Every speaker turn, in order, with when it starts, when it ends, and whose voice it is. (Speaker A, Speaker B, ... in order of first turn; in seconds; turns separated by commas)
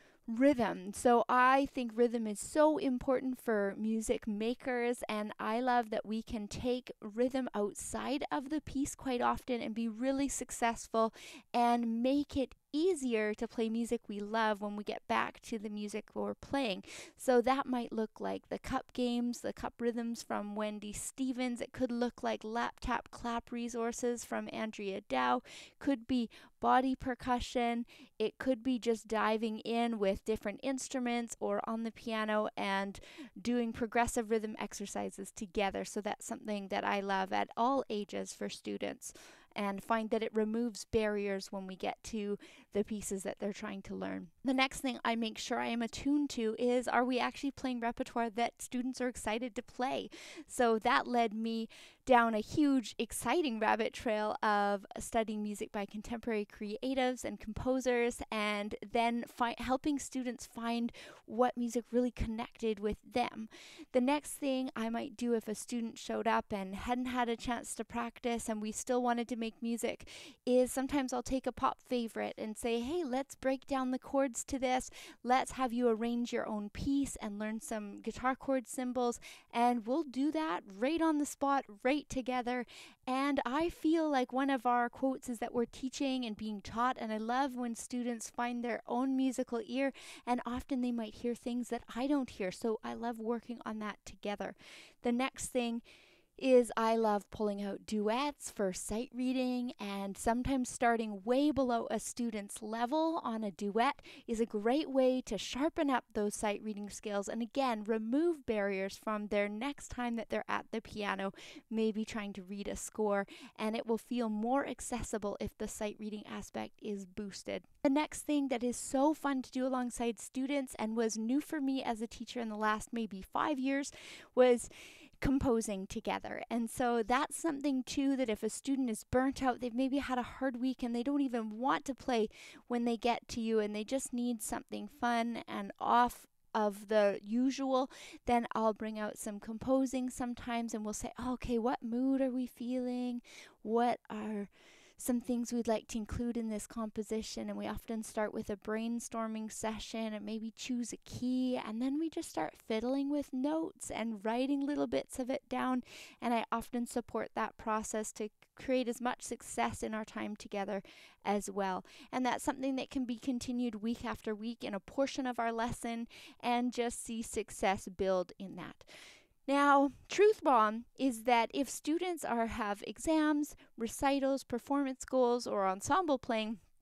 Speaker A: 0.3-95.8, Speaker A: 96.4-124.7, Speaker A: 125.2-168.9, Speaker A: 169.5-176.6